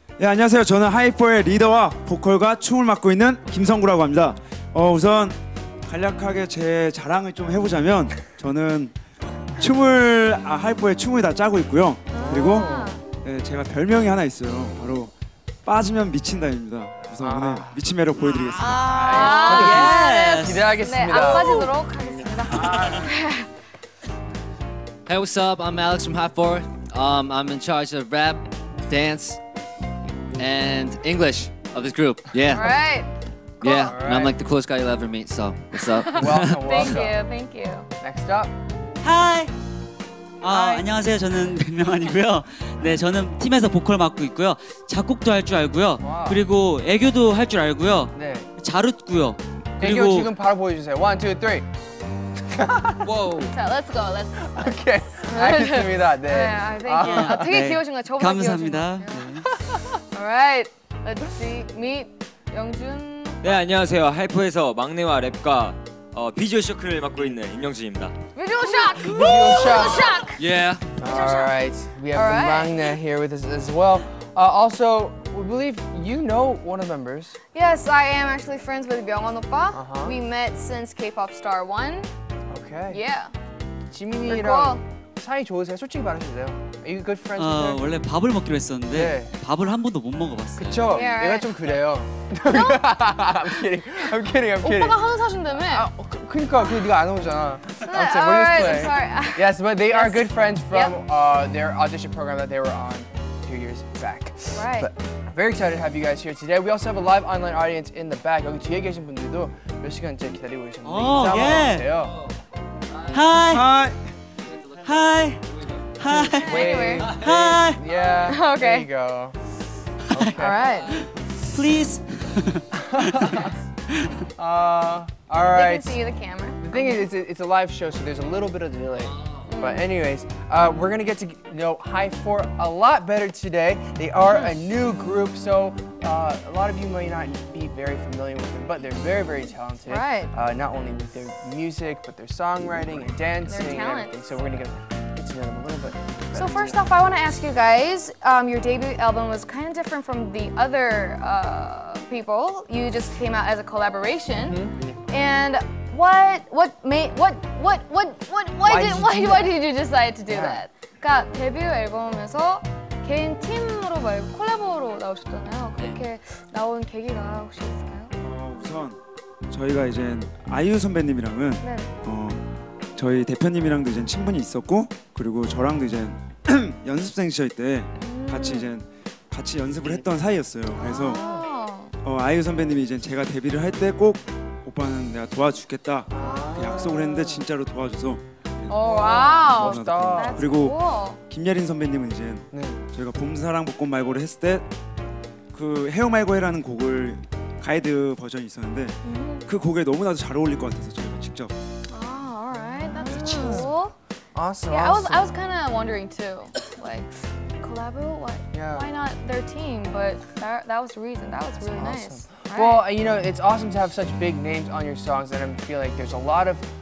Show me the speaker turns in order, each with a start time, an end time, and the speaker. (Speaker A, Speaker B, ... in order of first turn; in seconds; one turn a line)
Speaker A: 0.2-8.9
Speaker A: 9.6-15.1
Speaker B: 12.1-13.0
Speaker C: 12.2-12.9
Speaker A: 15.6-18.8
Speaker C: 17.2-17.8
Speaker D: 18.3-20.7
Speaker C: 18.7-21.6
Speaker B: 19.0-23.5
Speaker E: 25.1-29.4
Speaker E: 30.4-32.8
Speaker B: 32.5-33.1
Speaker B: 33.6-34.0
Speaker E: 33.6-36.9
Speaker C: 33.8-34.4
Speaker C: 36.1-37.2
Speaker B: 36.4-37.9
Speaker C: 38.0-38.5
Speaker D: 39.0-39.5
Speaker D: 40.4-50.3
Speaker B: 40.5-40.8
Speaker C: 46.0-46.4
Speaker C: 48.1-48.5
Speaker C: 49.8-51.6
Speaker C: 52.5-53.1
Speaker F: 53.0-53.5
Speaker B: 53.5-59.4
Speaker C: 54.5-57.5
Speaker D: 57.0-59.5
Speaker C: 59.5-59.8
Speaker B: 60.1-63.5
Speaker F: 63.4-68.2
Speaker B: 68.3-70.4
Speaker C: 68.8-70.1
Speaker F: 70.3-70.8
Speaker C: 71.0-77.4
Speaker B: 71.0-71.5
Speaker B: 72.1-72.9
Speaker B: 77.5-82.1
Speaker C: 79.7-80.2
Speaker C: 82.5-83.0
Speaker B: 82.9-83.3
Speaker C: 83.9-87.9
Speaker B: 84.2-84.8
Speaker D: 87.4-91.0
Speaker C: 88.9-89.3
Speaker C: 90.6-112.2
Speaker B: 90.9-91.5
Speaker B: 92.5-92.9
Speaker B: 94.6-95.9
Speaker B: 97.8-101.0
Speaker B: 104.5-104.9
Speaker D: 110.8-111.9
Speaker D: 113.1-113.7
Speaker A: 113.5-114.0
Speaker D: 114.8-117.8
Speaker C: 116.0-119.3
Speaker B: 116.3-117.1
Speaker B: 118.1-118.9
Speaker C: 120.1-120.8
Speaker B: 120.3-120.9
Speaker D: 120.9-123.3
Speaker C: 122.8-123.5
Speaker C: 124.4-126.0
Speaker B: 125.4-127.1
Speaker C: 126.6-146.8
Speaker B: 129.5-129.9
Speaker B: 134.2-134.5
Speaker B: 139.9-140.3
Speaker B: 143.4-144.3
Speaker B: 146.3-168.1
Speaker C: 154.4-154.7
Speaker C: 158.6-159.5
Speaker C: 160.3-160.6
Speaker A: 168.2-169.0
Speaker A: 169.5-172.4
Speaker B: 171.6-171.9
Speaker A: 172.9-181.2
Speaker B: 178.0-178.7
Speaker B: 180.7-181.9
Speaker C: 180.8-181.4
Speaker A: 182.0-188.8
Speaker C: 186.1-187.4
Speaker B: 186.2-186.7
Speaker B: 188.7-191.2
Speaker C: 188.8-190.4
Speaker A: 189.4-194.7
Speaker C: 192.5-192.8
Speaker A: 195.5-201.5
Speaker B: 199.0-199.4
Speaker B: 201.9-203.9
Speaker C: 202.5-203.7
Speaker D: 203.1-203.5
Speaker A: 203.1-203.6
Speaker C: 204.3-205.3
Speaker B: 204.7-212.8
Speaker C: 208.5-208.9
Speaker C: 211.6-216.6